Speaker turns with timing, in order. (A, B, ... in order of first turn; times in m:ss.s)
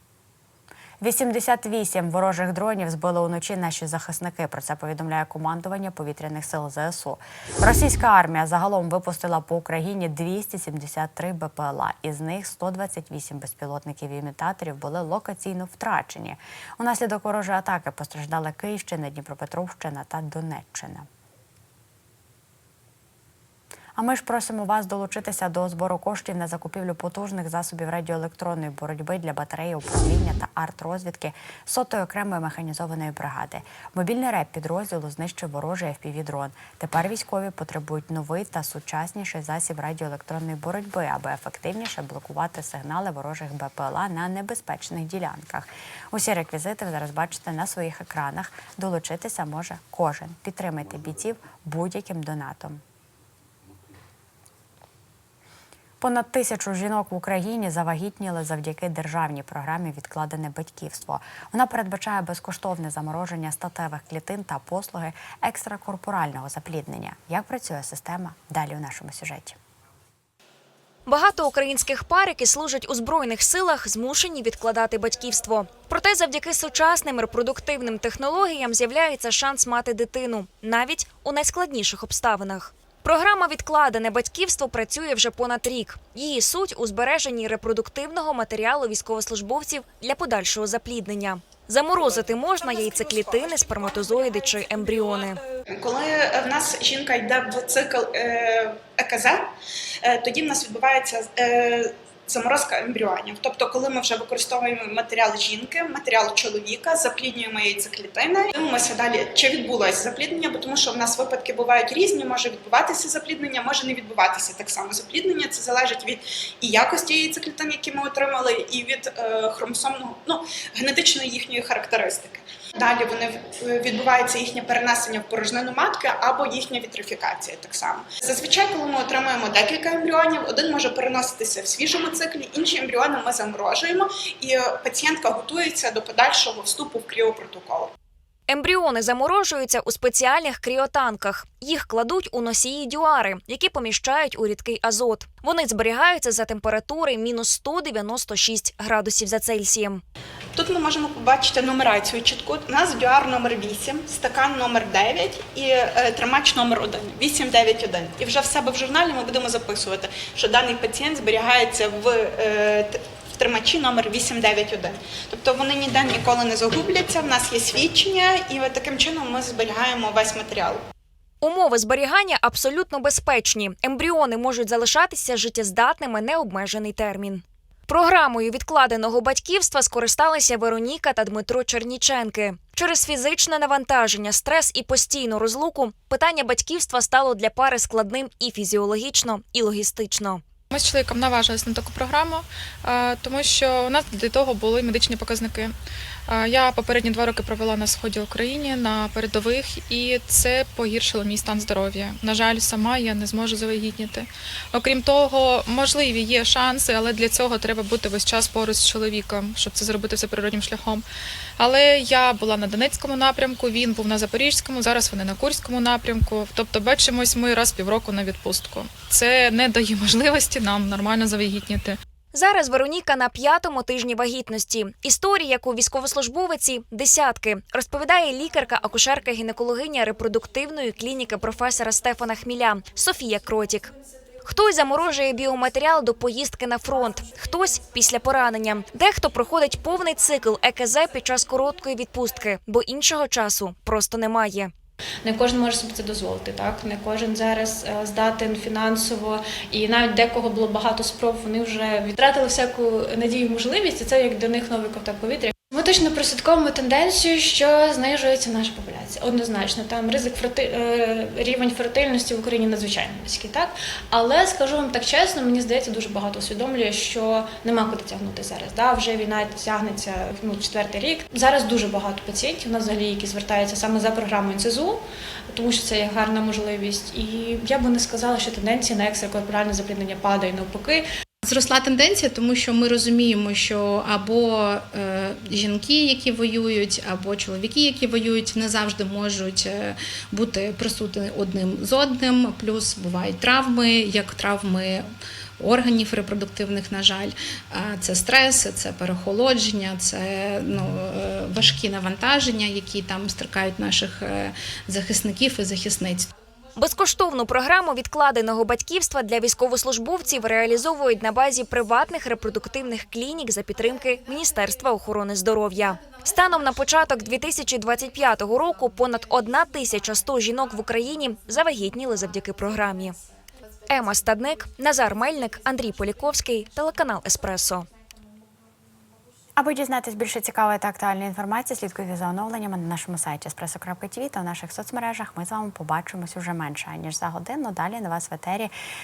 0:01.0-0:21.1 A
0:24.0-0:52.8 A
0:56.0-1:09.6 A
1:11.0-1:35.4 B
1:31.9-1:39.5 C
1:40.0-2:17.9 C
2:18.5-2:30.0 B
2:30.5-2:50.8 C
2:51.4-3:10.4 B
3:10.7-3:15.7 D
3:16.3-3:31.0 D
3:31.6-3:42.0 D
3:42.3-3:53.9 B
3:54.4-4:04.7 B
4:05.2-4:41.0 E
4:41.4-4:55.0 F
4:55.6-5:06.3 F
5:06.8-5:23.1 B
5:10.9-5:11.8 F
5:13.7-5:24.2 F
5:23.9-5:27.9 B
5:29.6-5:38.7 A